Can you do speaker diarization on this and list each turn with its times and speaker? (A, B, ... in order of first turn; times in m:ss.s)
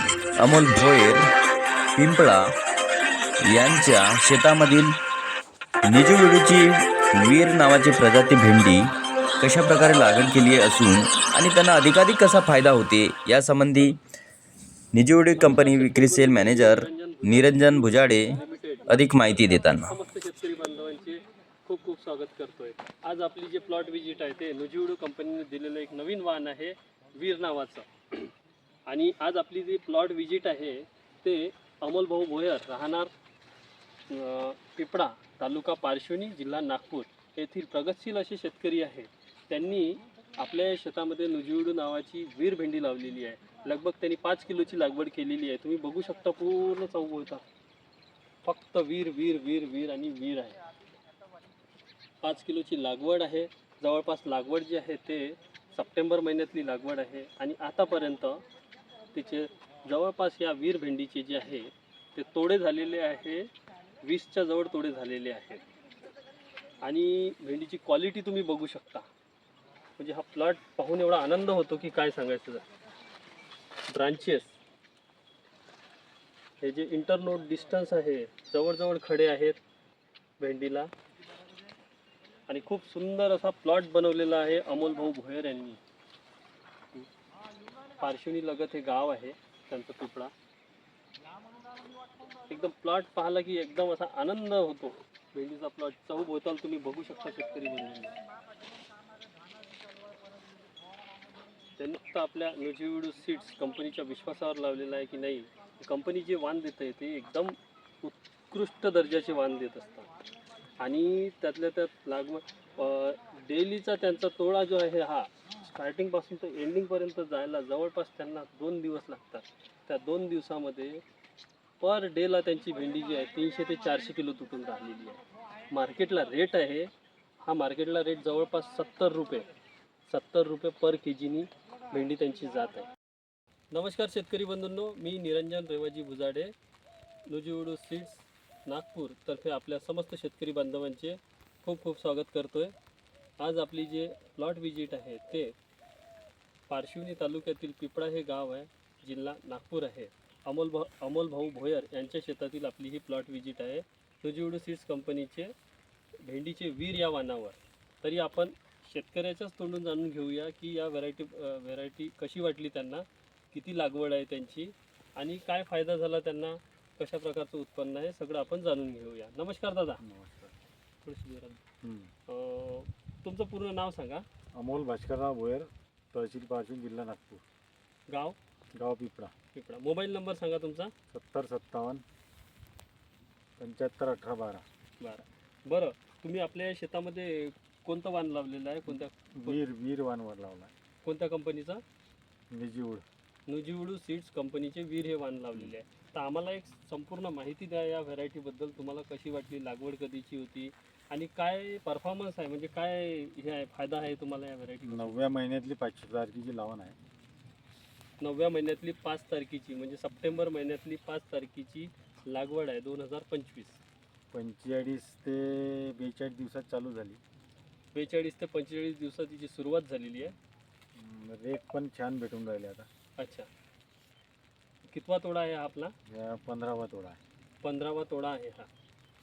0:00.4-0:01.2 A
0:02.0-0:02.4 A
0:03.5-0:04.9 A
0:05.8-0:08.9 A
0:09.4-0:14.0 A
0:14.9-0:18.3 A
0:15.3-0:19.1 B
0:18.9-0:19.9 A
0:19.8-0:28.3 B
0:28.9-0:33.1 B
0:34.1-0:47.4 B
0:48.4-0:50.6 B
0:52.2-0:58.4 B
0:59.1-1:03.5 B
1:04.0-1:05.6 B
1:06.8-1:09.1 B
1:10.0-1:12.6 B
1:13.9-1:14.5 B
1:16.6-1:19.6 B
1:20.4-1:20.9 B
1:22.5-1:25.8 B
1:28.0-1:30.3 B
1:32.5-1:38.2 B
1:41.8-1:50.1 B
1:50.8-2:01.0 B
2:01.8-2:05.2 B
2:05.7-2:09.5 B
2:10.1-2:12.9 B
2:13.7-2:16.5 B
2:17.3-2:22.7 B
2:23.4-2:25.5 B
2:26.7-2:35.5 B
2:36.2-2:50.0 B
2:50.0-2:50.5 C
2:51.0-2:51.6 B
2:51.8-2:52.1 C
2:52.3-2:54.2 B
2:54.5-2:57.4 C
2:58.1-2:58.4 B
2:58.7-2:59.3 C
2:59.5-3:00.9 B
3:01.1-3:02.0 C
3:03.6-3:04.6 C
3:05.0-3:09.6 B
3:08.9-3:10.7 C
3:11.0-3:11.8 B
3:12.5-3:13.0 C
3:13.5-3:25.2 B
3:24.8-3:27.0 C
3:28.2-3:33.8 B
3:34.3-3:37.2 C
3:37.9-3:40.4 B
3:40.9-3:42.9 C
3:43.2-3:43.5 B
3:44.9-3:45.9 B
3:46.1-3:47.2 C
3:47.6-3:48.7 B